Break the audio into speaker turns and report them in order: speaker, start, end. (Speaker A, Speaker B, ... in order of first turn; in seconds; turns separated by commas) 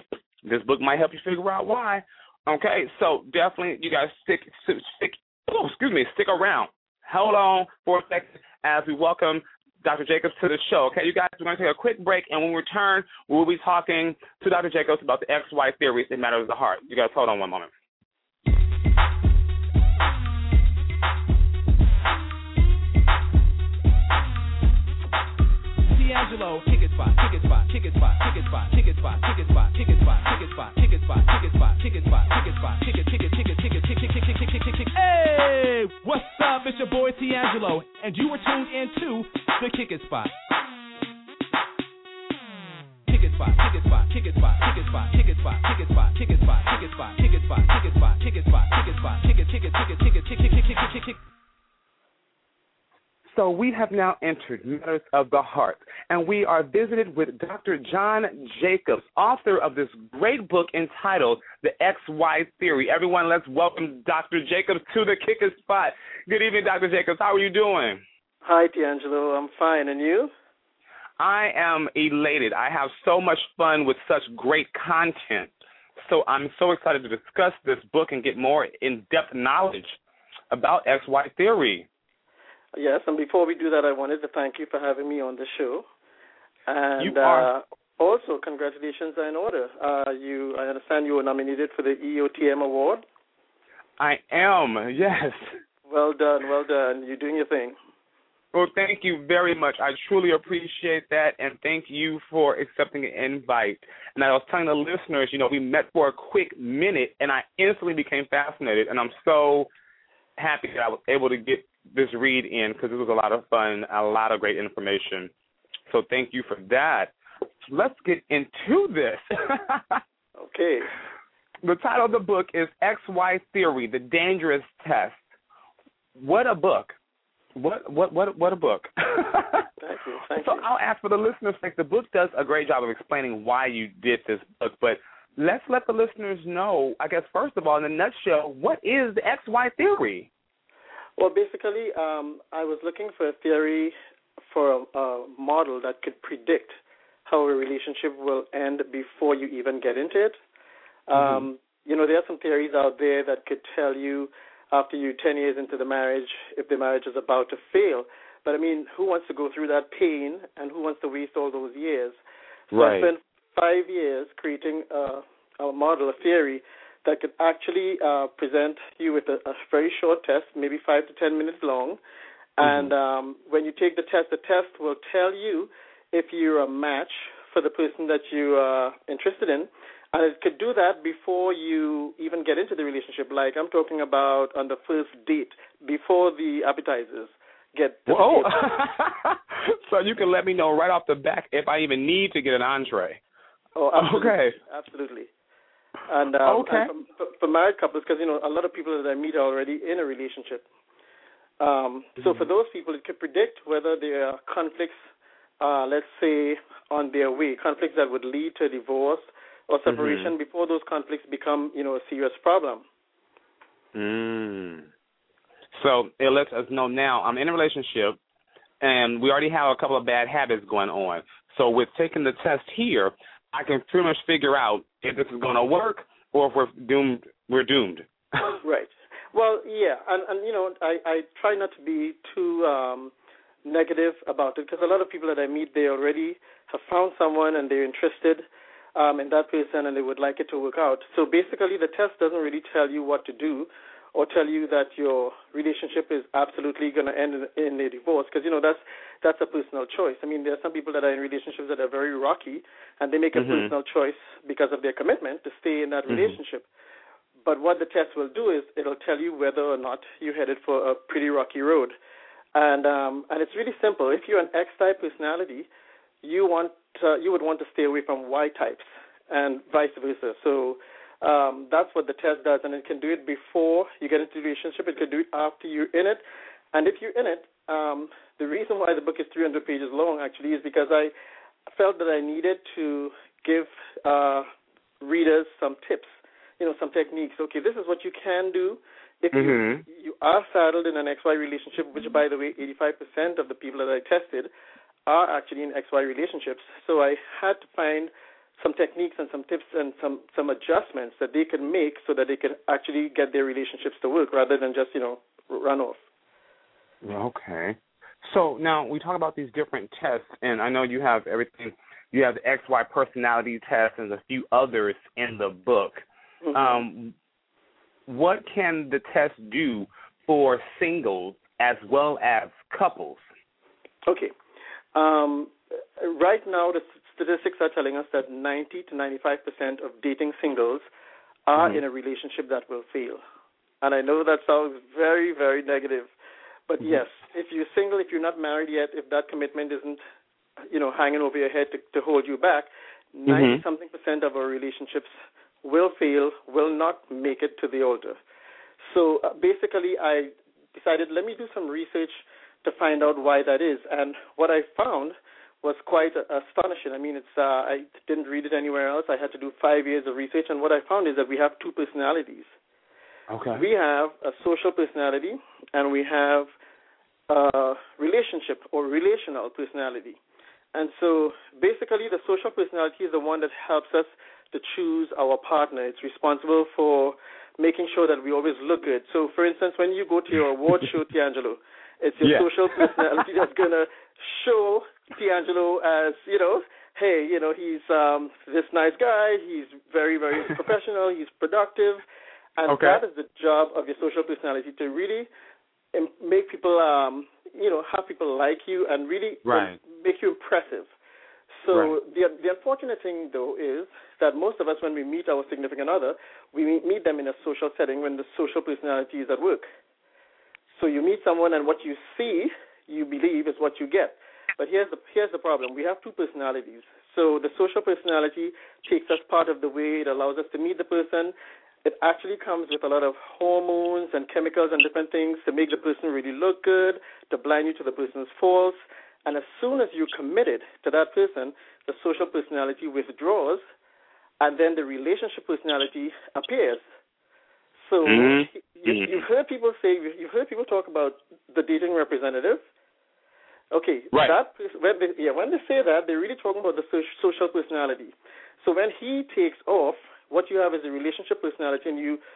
Speaker A: 0.4-17.7, Speaker B: 25.9-40.3, Speaker B: 43.1-51.2, Speaker A: 53.3-68.0, Speaker C: 68.4-70.3, Speaker A: 71.2-80.0, Speaker A: 80.5-81.9, Speaker C: 82.8-85.8, Speaker C: 86.7-93.0, Speaker A: 87.0-87.5, Speaker A: 94.0-95.5, Speaker C: 95.9-97.8, Speaker A: 98.5-109.7, Speaker A: 110.4-115.3, Speaker A: 115.9-117.1, Speaker A: 117.7-120.0, Speaker C: 120.4-120.9, Speaker A: 121.6-125.2, Speaker A: 126.2-126.9, Speaker A: 127.5-129.7, Speaker C: 129.8-130.7, Speaker A: 130.3-140.3, Speaker C: 141.2-143.9, Speaker C: 144.5-150.4, Speaker C: 151.1-162.2, Speaker A: 151.1-151.4, Speaker C: 162.7-172.0, Speaker A: 162.7-163.1, Speaker C: 172.6-188.8, Speaker A: 172.6-172.9, Speaker A: 188.1-193.2, Speaker C: 193.8-195.3, Speaker A: 193.9-194.6, Speaker C: 196.1-200.6, Speaker A: 196.4-196.9, Speaker C: 201.6-205.0, Speaker A: 202.2-202.4, Speaker C: 205.6-212.8, Speaker A: 209.9-210.3, Speaker A: 213.9-214.9, Speaker A: 215.7-218.2, Speaker A: 218.8-228.6, Speaker C: 228.6-233.1, Speaker C: 233.6-238.4, Speaker C: 238.9-256.6, Speaker A: 253.3-253.7, Speaker A: 256.1-256.4, Speaker C: 257.4-261.9, Speaker C: 262.5-265.7, Speaker C: 266.2-276.2, Speaker C: 276.7-281.1, Speaker C: 281.7-284.5, Speaker C: 285.0-294.5, Speaker A: 289.3-289.8, Speaker C: 295.1-306.0, Speaker A: 307.0-317.1, Speaker C: 316.4-316.8, Speaker A: 318.1-323.2, Speaker C: 324.1-324.3, Speaker C: 324.9-330.8, Speaker C: 331.5-333.2, Speaker C: 333.8-336.1, Speaker C: 336.7-340.0, Speaker C: 340.7-345.1, Speaker A: 343.3-343.6, Speaker C: 345.6-348.2, Speaker C: 348.9-362.5, Speaker A: 363.3-363.6, Speaker C: 363.5-366.5, Speaker C: 367.3-370.2, Speaker C: 370.7-392.0, Speaker A: 382.2-382.9, Speaker C: 392.6-395.3, Speaker A: 392.7-393.0, Speaker C: 395.9-400.9, Speaker A: 399.4-399.8, Speaker C: 401.6-409.7, Speaker A: 401.7-401.9, Speaker C: 410.8-421.3, Speaker C: 421.8-433.6, Speaker C: 434.4-436.8, Speaker C: 437.8-442.6, Speaker A: 438.0-439.2, Speaker C: 443.7-452.2